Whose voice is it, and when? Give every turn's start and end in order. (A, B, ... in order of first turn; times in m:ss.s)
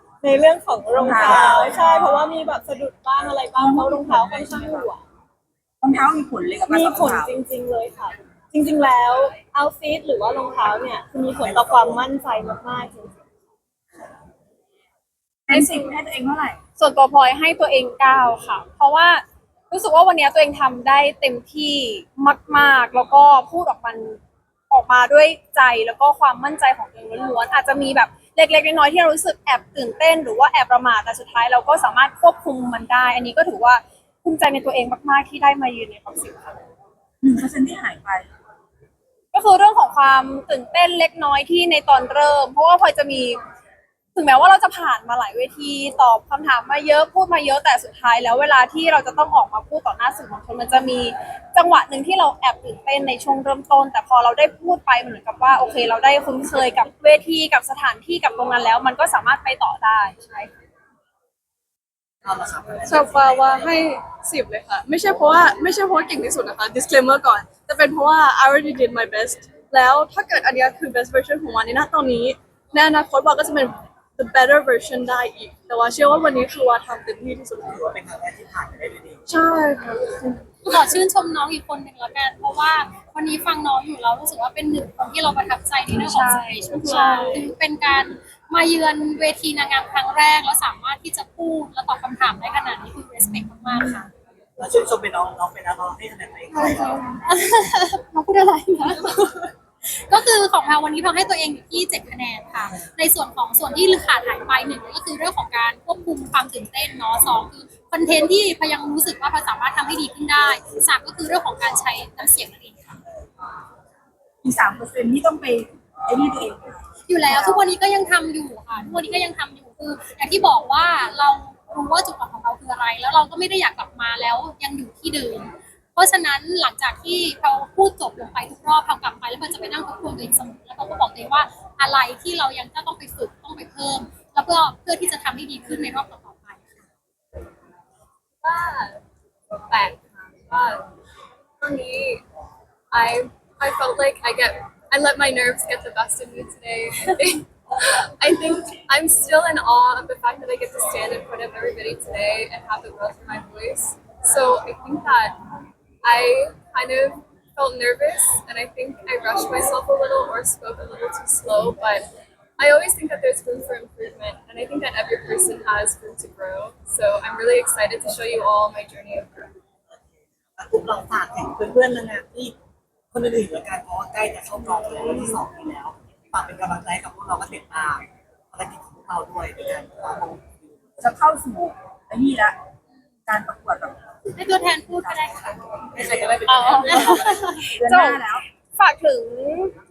0:00.2-0:05.0 A
0:01.0-0:02.3 B
0:01.2-0:02.0 C
0:03.5-0:04.9 B
0:05.8-0:07.3 B
0:06.6-0:13.2 A
0:11.4-0:12.0 C
0:15.5-0:16.6 B
0:15.5-0:15.9 D
0:16.8-0:24.2 D
0:24.7-0:36.6 D
0:37.2-0:38.3 B
0:39.3-0:43.4 D
0:44.2-1:00.5 D
1:02.2-1:03.7 C
1:02.9-1:17.8 E
1:17.6-1:19.2 C
1:19.3-1:20.8 E
1:20.7-1:34.1 F
1:25.9-1:27.2 D
1:26.8-1:27.4 E
1:34.6-1:37.2 C
1:37.2-1:53.0 F
1:54.4-1:57.6 B
1:57.1-2:16.8 F
2:18.4-2:19.0 G
2:19.7-2:20.9 G
2:21.6-2:22.2 G
2:22.9-2:35.4 G
2:36.0-2:49.5 G
2:50.6-2:52.6 C
2:53.1-3:00.8 C
3:01.0-3:02.6 B
3:03.3-3:04.0 B
3:04.4-3:05.6 F
3:04.9-3:05.4 B
3:05.9-3:07.6 C
3:06.5-3:08.2 D
3:06.9-3:07.8 F
3:07.7-3:08.4 B
3:08.8-3:09.7 D